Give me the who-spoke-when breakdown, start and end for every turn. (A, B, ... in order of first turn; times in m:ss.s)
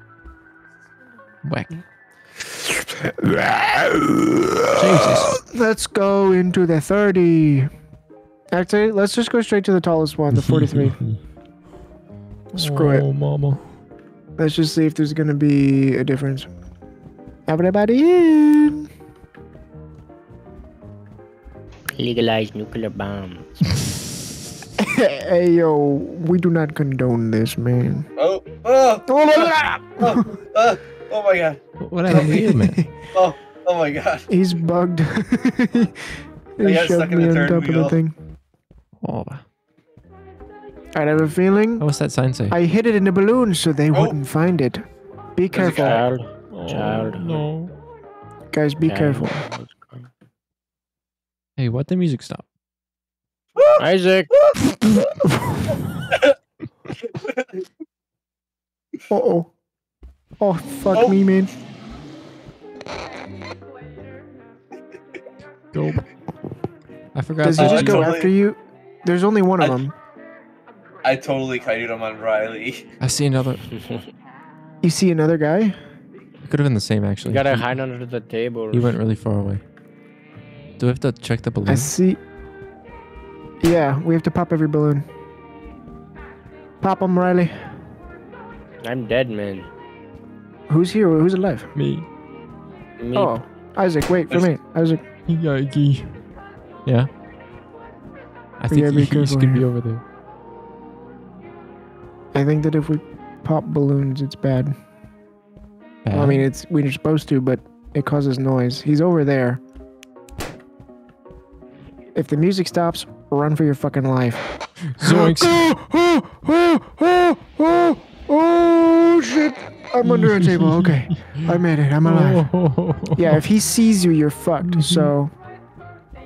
0:01.4-0:01.8 A
0:03.0-0:07.7 B
0:04.7-0:05.4 A
0:08.5-0:11.0 B
0:10.3-0:11.2 A
0:12.5-0:13.1 B
0:12.5-0:13.6 A
0:14.4-0:16.5 B
0:17.5-0:18.9 B
0:21.9-0:23.8 C
0:24.8-0:28.1 B
0:28.2-0:31.6 D
0:29.1-0:30.3 B
0:31.8-0:32.9 A
0:32.1-0:32.9 B
0:32.1-0:32.4 D
0:33.1-0:34.3 D
0:34.3-0:38.2 B
0:36.6-0:38.0 D
0:39.0-0:39.4 A
0:41.0-0:41.9 B
0:41.8-0:42.6 A
0:42.5-0:46.0 B
0:45.5-0:46.2 D
0:45.5-0:47.4 C
0:46.5-0:47.7 A
0:48.5-0:49.4 B
0:48.8-0:50.1 C
0:51.6-0:52.4 A
0:53.6-0:55.1 D
0:53.8-0:54.3 C
0:55.2-0:55.5 B
0:57.1-0:57.5 D
0:59.1-0:59.5 B
1:00.4-1:01.5 B
1:05.7-1:06.0 A
1:07.1-1:08.1 A
1:07.4-1:09.9 B
1:07.6-1:08.3 D
1:11.0-1:12.8 D
1:13.0-1:13.6 A
1:13.8-1:14.1 C
1:14.8-1:15.8 B
1:16.5-1:17.8 A
1:17.2-1:19.0 C
1:18.7-1:19.6 A
1:20.8-1:21.9 A
1:21.7-1:22.2 B
1:23.6-1:25.0 B
1:26.8-1:27.7 B
1:28.8-1:29.7 C
1:30.7-1:31.7 B
1:31.8-1:32.1 A
1:33.0-1:33.4 C
1:33.2-1:35.0 B
1:35.3-1:36.2 A
1:38.6-1:40.0 A
1:38.7-1:39.6 B
1:42.3-1:44.8 B
1:46.0-1:46.5 A
1:46.1-1:49.6 B
1:52.2-2:02.5 B
1:54.9-1:55.6 A
2:00.0-2:01.1 A
2:02.0-2:03.4 A
2:03.2-2:05.3 B
2:04.6-2:05.1 A